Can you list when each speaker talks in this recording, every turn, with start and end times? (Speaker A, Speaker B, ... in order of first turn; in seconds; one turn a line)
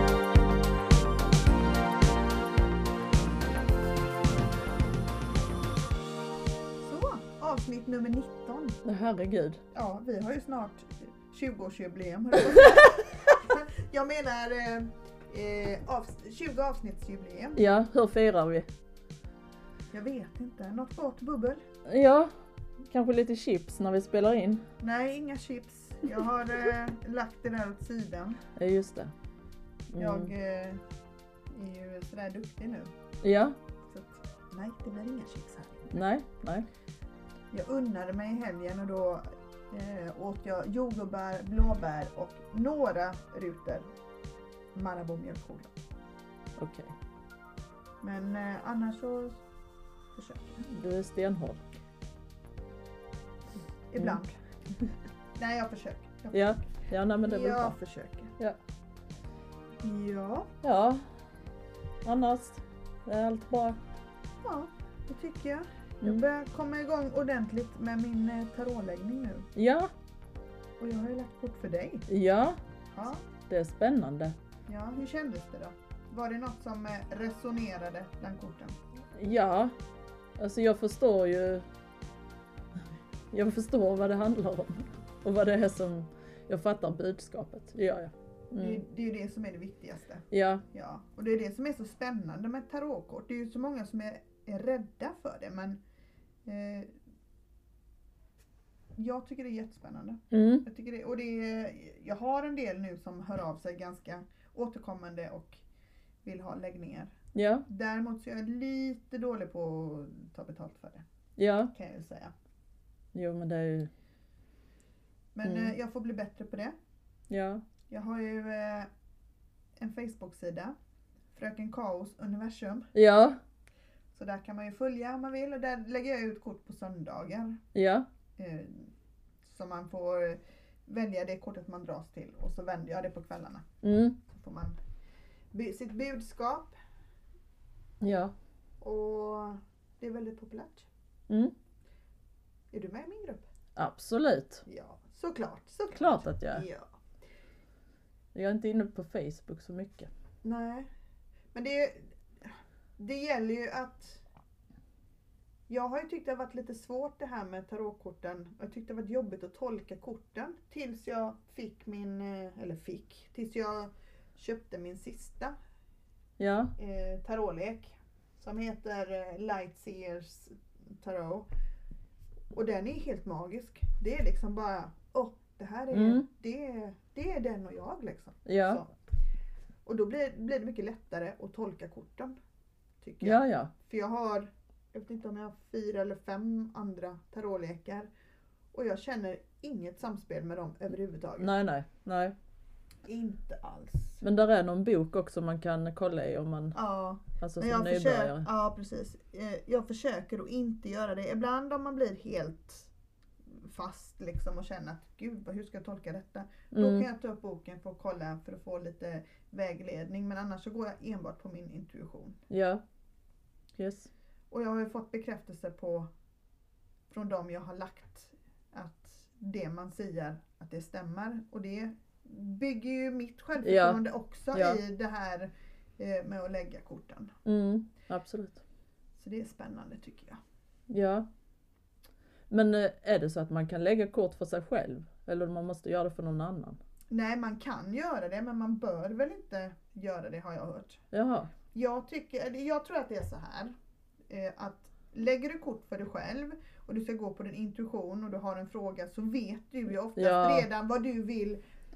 Speaker A: 6.8-8.8
Speaker B: 8.8-9.6
Speaker A: 9.7-17.6
Speaker B: 17.6-18.7
Speaker A: 19.9-21.6
Speaker B: 21.9-22.3
Speaker B: 22.8-24.6
Speaker A: 24.8-28.4
Speaker B: 28.6-29.1
Speaker B: 29.9-30.3
Speaker A: 30.0-30.8
Speaker A: 31.5-32.9
Speaker B: 33.2-33.6
Speaker A: 33.9-36.0
Speaker B: 35.9-36.7
Speaker A: 37.5-43.9
Speaker A: 44.7-45.7
Speaker B: 46.6-46.9
Speaker A: 48.0-49.4
Speaker A: 50.1-50.6
Speaker B: 50.6-51.6
Speaker A: 53.9-54.3
Speaker A: 55.4-58.3
Speaker B: 56.3-57.8
Speaker A: 59.8-60.5
Speaker B: 60.6-61.0
Speaker B: 62.0-63.8
Speaker A: 64.4-69.5
Speaker B: 69.5-69.9
Speaker A: 70.8-72.0
Speaker B: 72.1-72.6
Speaker A: 72.9-73.2
Speaker B: 73.5-74.3
Speaker A: 74.7-78.8
Speaker B: 79.1-79.7
Speaker B: 80.4-81.7
Speaker B: 83.3-88.8
Speaker A: 88.6-95.8
Speaker B: 90.3-90.6
Speaker A: 96.5-96.9
Speaker A: 99.0-105.6
Speaker B: 100.3-100.6
Speaker A: 106.2-107.1
Speaker B: 107.3-107.7
Speaker A: 107.7-111.0
Speaker B: 111.4-111.7
Speaker A: 111.7-112.3
Speaker B: 113.1-113.9
Speaker A: 115.3-116.7
Speaker B: 115.4-115.7
Speaker B: 117.3-117.6
Speaker A: 117.9-118.9
Speaker A: 119.8-120.7
Speaker A: 121.3-122.9
Speaker B: 122.9-123.4
Speaker A: 124.1-127.6
Speaker B: 127.7-128.1
Speaker A: 128.4-128.9
Speaker A: 129.4-133.7
Speaker B: 133.8-134.2
Speaker A: 134.2-134.8
Speaker A: 135.5-136.7
Speaker B: 138.0-138.3
Speaker A: 138.8-140.9
Speaker B: 141.3-141.5
Speaker A: 142.7-143.4
Speaker B: 143.8-144.6
Speaker A: 144.7-146.9
Speaker B: 145.9-146.6
Speaker B: 148.3-150.1
Speaker A: 150.4-150.9
Speaker A: 151.5-154.2
Speaker A: 155.7-165.5
Speaker B: 166.4-166.7
Speaker A: 166.8-171.5
Speaker A: 172.5-178.9
Speaker B: 175.9-176.3
Speaker B: 178.4-178.8
Speaker A: 179.8-182.3
Speaker A: 183.0-188.1
Speaker B: 183.2-183.7
Speaker A: 188.7-191.5
Speaker B: 191.4-192.3
Speaker A: 193.1-194.2
Speaker B: 194.2-196.8
Speaker A: 196.7-202.9
Speaker B: 197.3-198.5
Speaker A: 203.5-212.4
Speaker B: 206.7-207.1
Speaker B: 212.5-212.8
Speaker B: 213.8-214.1
Speaker A: 214.5-216.1
Speaker A: 217.1-227.3
Speaker B: 223.6-224.0
Speaker B: 224.5-224.8
Speaker B: 227.4-228.6
Speaker A: 229.2-230.4
Speaker B: 230.9-231.3
Speaker B: 232.5-236.8
Speaker A: 237.1-241.0
Speaker B: 241.1-241.5
Speaker A: 241.7-243.7
Speaker A: 244.3-251.6
Speaker B: 250.2-250.7